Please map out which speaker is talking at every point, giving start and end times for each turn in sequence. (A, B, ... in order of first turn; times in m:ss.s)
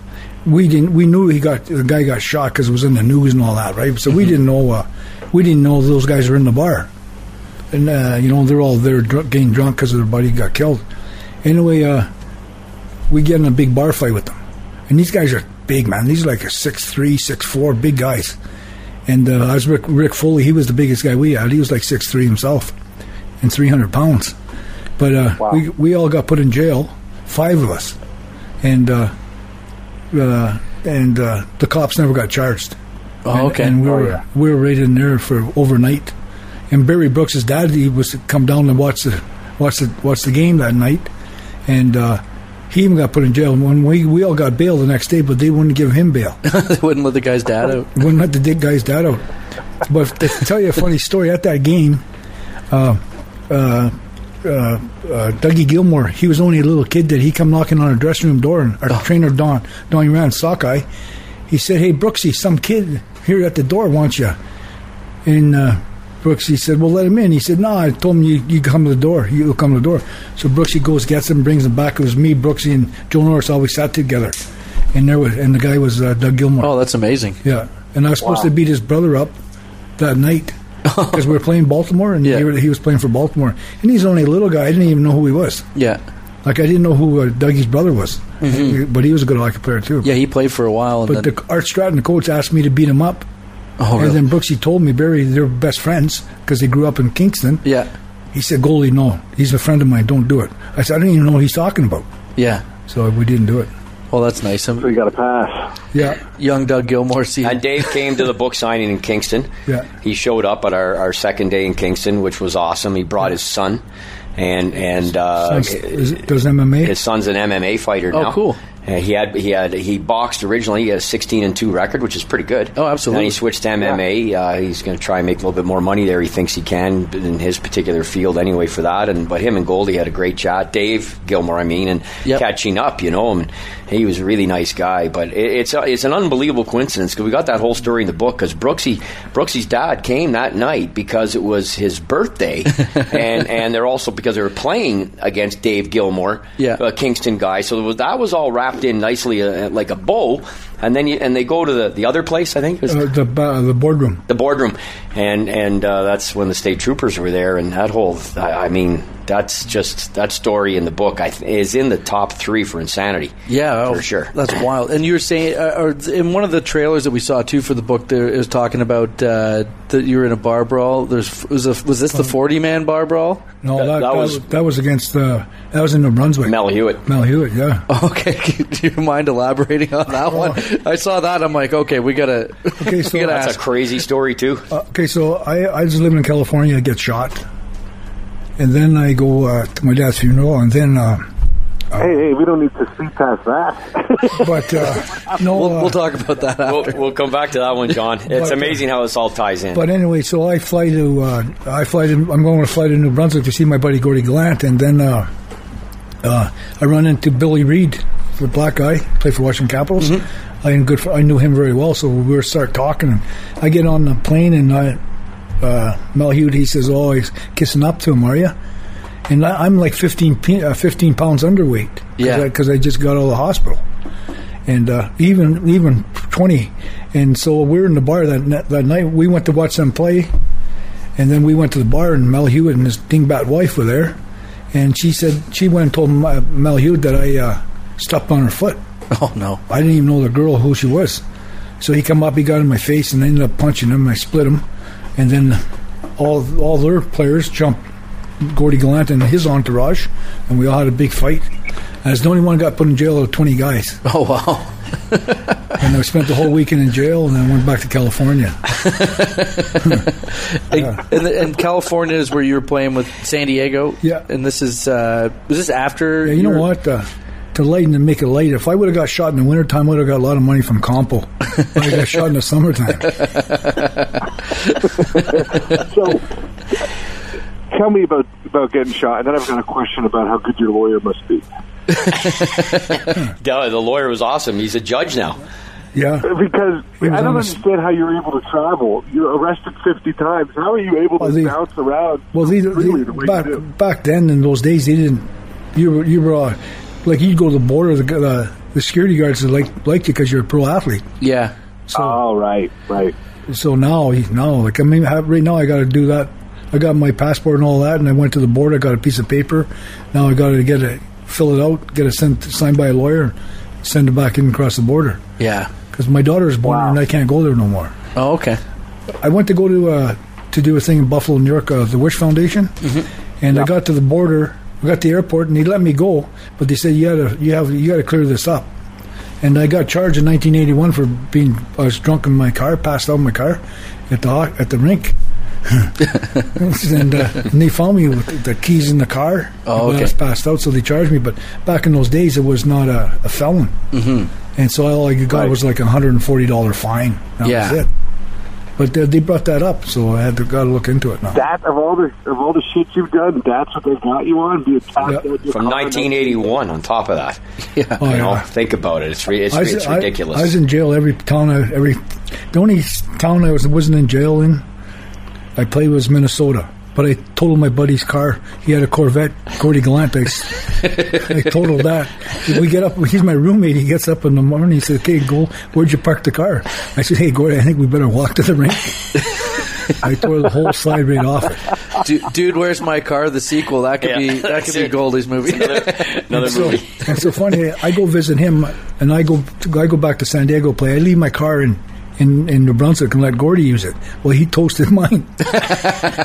0:00.4-0:06.9 A
0:07.7-0:10.8 A
0:11.4-0:12.1 A
0:13.1-0:14.4 A
0:14.9-0:18.4 A
0:19.1-0:22.8 A
0:23.4-0:24.4 A
0:25.0-0:28.0 A
0:28.6-0:29.1 A
0:30.1-0:32.8 A
0:33.2-0:33.9 B
0:33.3-0:36.1 A
0:36.7-0:41.1 A
0:41.7-0:46.4 A
0:46.4-0:47.9 B
0:47.9-0:49.2 A
0:49.8-0:52.0 A
0:52.7-1:00.9 A
1:01.5-1:04.4 A
1:05.2-1:14.4 A
1:14.9-1:16.7 A
1:16.6-1:17.4 B
1:17.4-1:19.4 A
1:20.0-1:25.7 A
1:20.9-1:21.2 B
1:25.8-1:26.0 B
1:26.4-1:30.1 A
1:28.4-1:28.8 B
1:30.0-1:31.3 B
1:31.1-1:33.2 A
1:33.8-1:34.2 B
1:34.0-1:37.6 A
1:38.3-1:42.1 A
1:42.4-1:42.7 B
1:42.8-1:43.7 A
1:44.1-1:44.9 B
1:44.8-1:45.7 C
1:45.9-1:46.2 A
1:46.2-1:47.6 B
1:47.4-1:49.5 D
1:50.0-1:53.8 D
1:54.4-1:56.2 D
1:55.4-1:57.0 A
1:56.8-2:33.0 D
1:58.1-1:58.6 B
2:02.8-2:03.4 B
2:32.9-2:34.2 A
2:34.3-2:43.4 D
2:43.5-2:53.5 B
2:43.9-2:44.3 D
2:53.6-2:57.8 A
2:53.8-2:54.4 D
2:56.4-2:57.0 D
2:57.9-3:03.6 B
3:00.3-3:00.6 A
3:02.8-3:03.4 A
3:03.1-3:04.7 D
3:04.7-3:07.4 A
3:08.6-3:11.3 A
3:11.9-3:12.2 A
3:12.0-3:14.8 C
3:14.3-3:16.0 A
3:15.4-3:17.1 B
3:16.6-3:19.8 D
3:18.3-3:18.8 A
3:19.7-3:25.3 A
3:26.2-3:35.0 A
3:35.6-3:38.6 A
3:39.3-3:43.8 A
3:42.2-3:42.5 B
3:44.7-3:50.3 A
3:51.2-3:54.2 A
3:54.7-3:58.8 A
3:59.1-3:59.6 B
3:59.7-4:01.2 A
4:01.8-4:04.6 A
4:05.2-4:05.6 A
4:06.2-4:07.8 A
4:08.4-4:11.5 A
4:12.0-4:14.0 A
4:14.0-4:15.8 B
4:15.8-4:18.6 A
4:18.7-4:26.7 B
4:20.7-4:21.0 A
4:26.2-4:33.2 A
4:33.1-4:34.0 B
4:35.7-4:36.2 C
4:37.7-4:41.5 C
4:42.1-4:42.9 B
4:42.3-4:45.4 D
4:45.9-4:46.3 A
4:46.2-4:53.6 C
4:47.0-4:47.6 A
4:51.2-4:51.6 A
4:52.3-5:01.1 A
5:01.2-5:01.5 B
5:01.9-5:02.2 A
5:01.9-5:03.1 C
5:03.5-5:15.3 A
5:15.4-5:15.7 B
5:15.9-5:18.0 A
5:16.6-5:17.0 C
5:18.2-5:18.6 B
5:19.2-5:22.9 A
5:23.4-5:28.7 A
5:29.4-5:43.8 A
5:39.7-5:40.1 B
5:43.9-5:44.3 B
5:44.6-5:47.9 A
5:47.4-5:47.8 B
5:48.8-5:51.5 A
5:51.3-5:56.4 C
5:55.5-5:57.4 D
5:57.8-5:58.1 B
5:58.0-5:58.5 A
5:58.0-6:00.5 D
5:59.5-6:02.0 A
6:02.5-6:04.6 A
6:05.6-6:21.6 A
6:22.0-6:26.8 B
6:24.0-6:27.2 D
6:26.4-6:36.0 A